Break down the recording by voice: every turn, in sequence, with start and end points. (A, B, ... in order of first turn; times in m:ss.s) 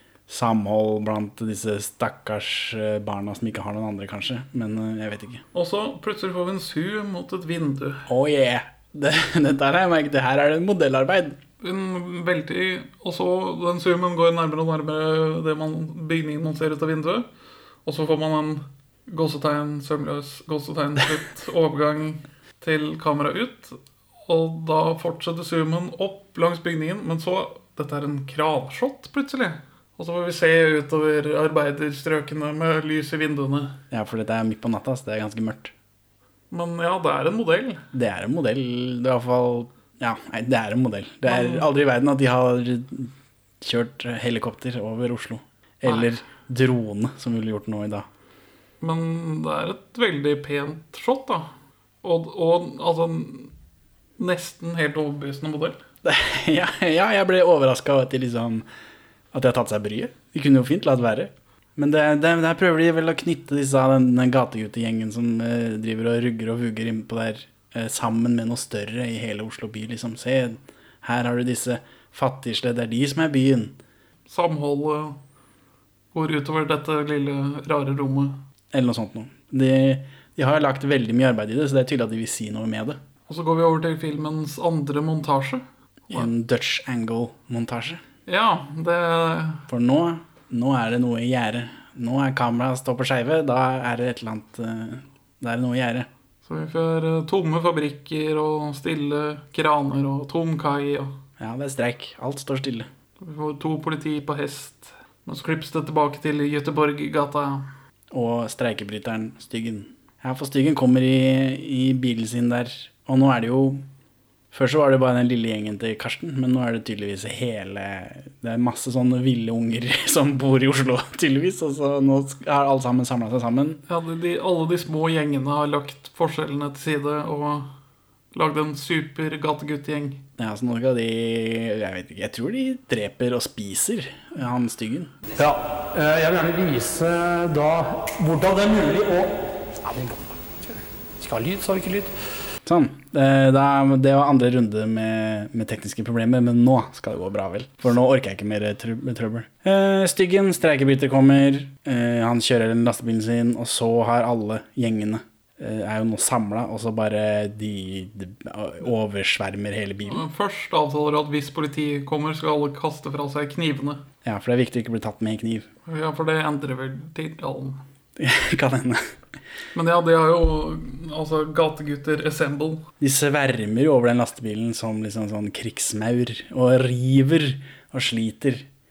0:00.3-0:05.4 A
0:05.5-0:08.1 B
0:08.1-0:11.4 A
0:11.6-0:17.3 B
0:17.8-0:33.8 B
0:33.9-0:35.7 A
0:36.5-0:37.8 B
0:37.9-0:48.1 A
0:41.3-0:41.7 B
0:45.8-0:46.1 B
0:48.8-0:51.5 B
0:52.0-0:53.5 B
0:54.2-0:55.8 B
0:56.0-0:58.7 A
0:59.3-1:13.8 A
1:14.3-1:15.2 B
1:16.1-1:18.4 B
1:18.7-1:23.0 A
1:23.3-1:26.3 B
1:26.1-1:28.0 A
1:28.3-1:29.7 B
1:29.7-1:36.1 A
1:36.4-1:41.2 B
1:41.4-1:42.9 A
1:43.2-1:47.7 B
1:48.1-1:53.8 A
1:54.5-2:03.8 A
2:03.9-2:07.7 B
2:08.3-2:10.2 B
2:10.4-2:15.1 A
2:15.4-2:19.3 C
2:19.9-2:20.2 C
2:21.2-2:22.1 C
2:22.7-2:40.2 A
2:40.1-2:44.0 B
2:44.2-2:45.7 A
2:45.9-2:47.8 B
2:48.2-2:49.1 A
2:49.7-2:52.9 B
2:53.0-2:58.7 A